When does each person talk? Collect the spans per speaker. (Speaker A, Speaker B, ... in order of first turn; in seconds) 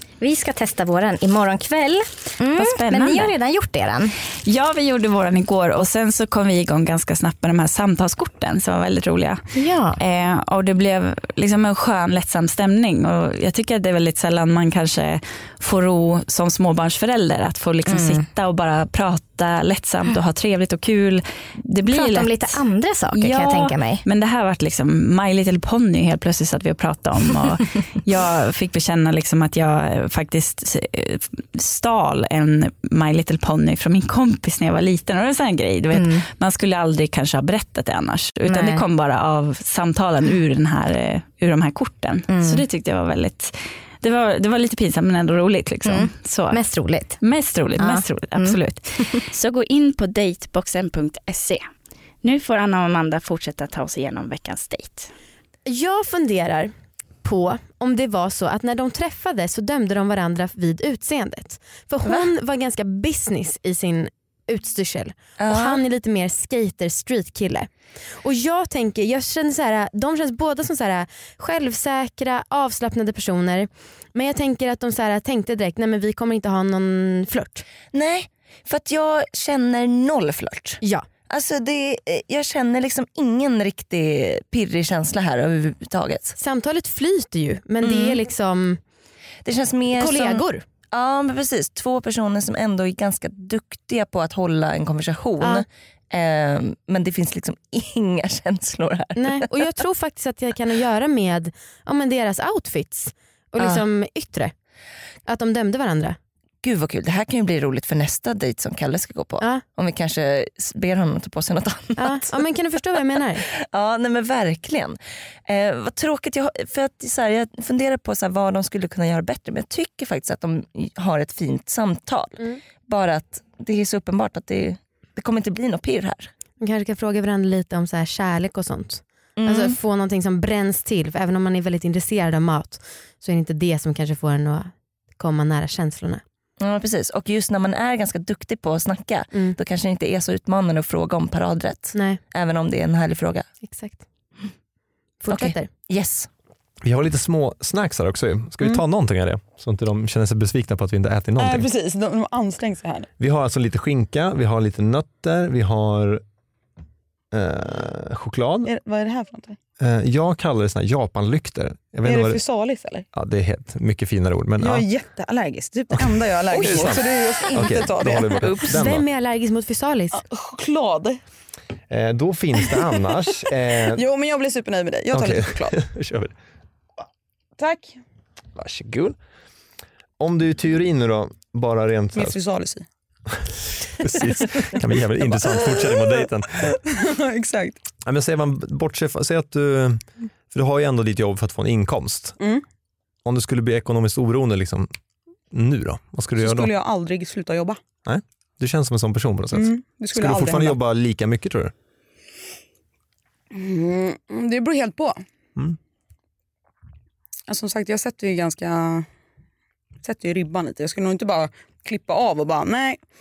Speaker A: 0.2-4.1, 9.5-10.0, 17.9-18.2, 21.9-24.0, 35.9-36.2, 38.5-38.9, 42.3-42.7, 45.9-47.2, 47.8-49.2
Speaker B: 2.6-3.3, 4.4-46.6, 47.2-51.6, 52.2-55.1
Speaker C: 55.7-56.7, 57.2-67.7, 68.2-77.6, 86.4-88.8, 89.9-90.6, 95.4-95.7, 99.2-104.5, 105.3-106.2, 112.0-113.5, 126.6-136.2, 141.9-142.2, 143.6-144.0, 145.2-145.7, 168.4-170.2
Speaker D: 62.0-62.3, 65.4-65.8, 77.9-86.4, 87.8-88.2, 89.4-99.5, 106.6-112.3, 113.4-126.3, 129.4-129.8, 136.6-143.5, 145.3-146.3
Speaker E: 146.8-151.7, 153.2-156.2, 157.3-158.7, 159.8-162.4, 163.1-164.8, 165.9-169.1, 171.9-174.0, 175.1-176.3, 178.6-179.2, 180.2-182.4, 183.4-186.7, 188.0-192.4, 193.2-194.9, 195.5-196.7, 198.1-201.7
Speaker F: 151.4-153.1, 158.7-159.6, 162.1-163.1, 164.6-168.5, 170.2-171.2, 173.9-175.8, 177.6-178.0, 182.2-182.8, 185.3-186.1, 186.7-187.8, 196.4-197.8, 199.5-200.8, 203.5-205.2, 207.5-209.1, 210.0-213.0